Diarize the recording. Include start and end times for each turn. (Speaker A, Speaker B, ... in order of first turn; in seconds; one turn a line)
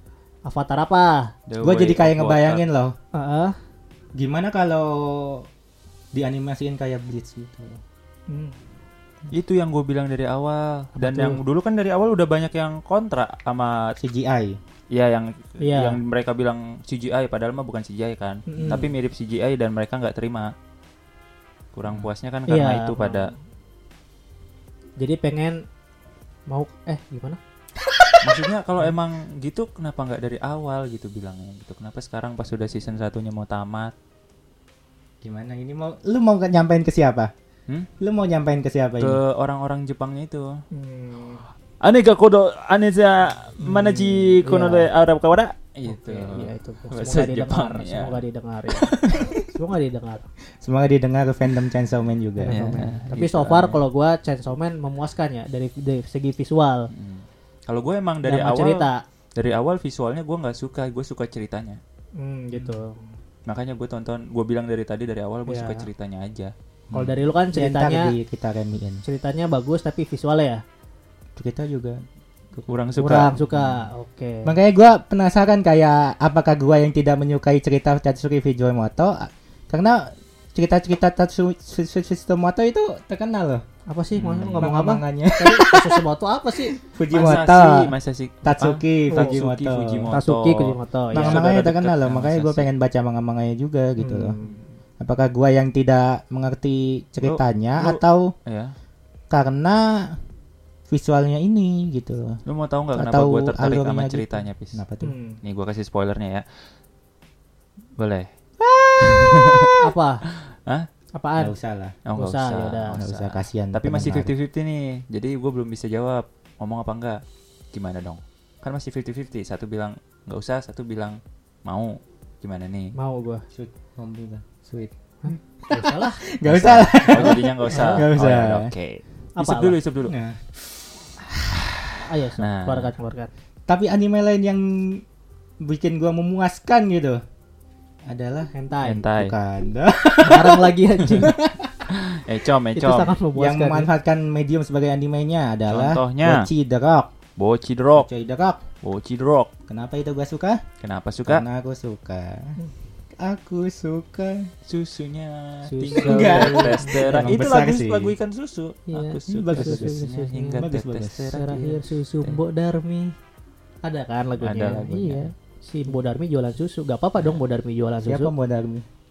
Speaker A: 0.5-1.3
Speaker B: 1.5-2.6
Speaker C: 1.6-3.0
Speaker A: 3.1-3.5
Speaker C: 4.2-5.5
Speaker C: 6.1-7.8
Speaker A: 8.3-8.5
Speaker B: 9.3-13.9
Speaker A: 11.0-11.4
Speaker C: 14.0-14.6
Speaker B: 14.9-20.5
Speaker A: 15.6-16.0
Speaker A: 18.5-18.9
Speaker B: 21.7-23.3
Speaker A: 22.5-23.3
Speaker A: 25.0-25.6
Speaker A: 26.5-27.4
Speaker B: 28.2-33.9
Speaker C: 35.2-37.3
Speaker C: 38.0-39.2
Speaker B: 39.0-40.6
Speaker A: 40.7-41.4
Speaker B: 41.8-48.2
Speaker A: 43.6-44.9
Speaker A: 45.9-50.3
Speaker B: 48.7-49.5
Speaker C: 50.6-52.8
Speaker A: 52.4-56.9
Speaker B: 52.5-53.8
Speaker B: 56.9-61.8
Speaker A: 58.2-59.0
Speaker A: 62.2-63.0
Speaker B: 63.5-66.5
Speaker A: 65.5-65.9
Speaker C: 66.9-69.0
Speaker A: 66.9-68.1
Speaker A: 69.0-70.6
Speaker C: 71.3-72.0
Speaker C: 72.5-73.8
Speaker B: 72.7-73.3
Speaker A: 73.0-74.5
Speaker C: 74.4-83.6
Speaker A: 83.9-86.7
Speaker B: 84.2-84.7
Speaker C: 84.6-86.0
Speaker C: 86.7-87.9
Speaker B: 87.1-92.7
Speaker C: 88.4-90.1
Speaker A: 90.1-91.4
Speaker C: 91.1-94.3
Speaker A: 94.0-94.6
Speaker B: 94.4-94.7
Speaker C: 95.0-98.3
Speaker B: 97.2-98.7
Speaker C: 99.3-100.1
Speaker C: 100.9-102.4
Speaker B: 102.5-104.8
Speaker C: 103.0-105.1
Speaker A: 105.0-105.4
Speaker B: 105.4-106.4
Speaker B: 108.0-108.3
Speaker C: 108.6-109.8
Speaker B: 109.0-109.8
Speaker A: 109.8-110.2
Speaker B: 110.5-110.9
Speaker A: 111.2-111.5
Speaker C: 111.4-112.0
Speaker B: 112.1-117.2
Speaker A: 112.2-113.0
Speaker C: 113.0-114.3
Speaker B: 117.7-122.9
Speaker A: 123.0-123.4
Speaker C: 123.5-124.9
Speaker A: 125.2-126.2
Speaker C: 125.6-128.7
Speaker B: 126.4-130.1
Speaker A: 127.1-128.1
Speaker A: 129.4-129.8
Speaker C: 130.1-130.6
Speaker A: 131.9-133.3
Speaker B: 132.4-132.9
Speaker C: 133.7-135.0
Speaker C: 135.6-137.2
Speaker C: 138.1-138.5
Speaker A: 138.5-139.1
Speaker B: 138.8-139.3
Speaker C: 139.1-141.8
Speaker A: 140.2-141.3
Speaker B: 141.9-143.1
Speaker A: 142.8-143.9
Speaker C: 143.3-147.1
Speaker B: 145.7-146.5
Speaker B: 147.4-148.1
Speaker C: 147.9-148.6
Speaker B: 148.8-149.5
Speaker C: 149.7-150.6
Speaker B: 150.8-151.4
Speaker C: 151.2-152.6
Speaker C: 153.2-154.5
Speaker B: 154.7-162.4
Speaker A: 155.7-157.3
Speaker C: 156.0-158.1
Speaker A: 158.9-160.6
Speaker C: 159.3-160.0
Speaker C: 160.6-161.3
Speaker A: 161.3-163.1
Speaker A: 163.8-168.3
Speaker B: 164.4-165.3
Speaker C: 168.0-168.8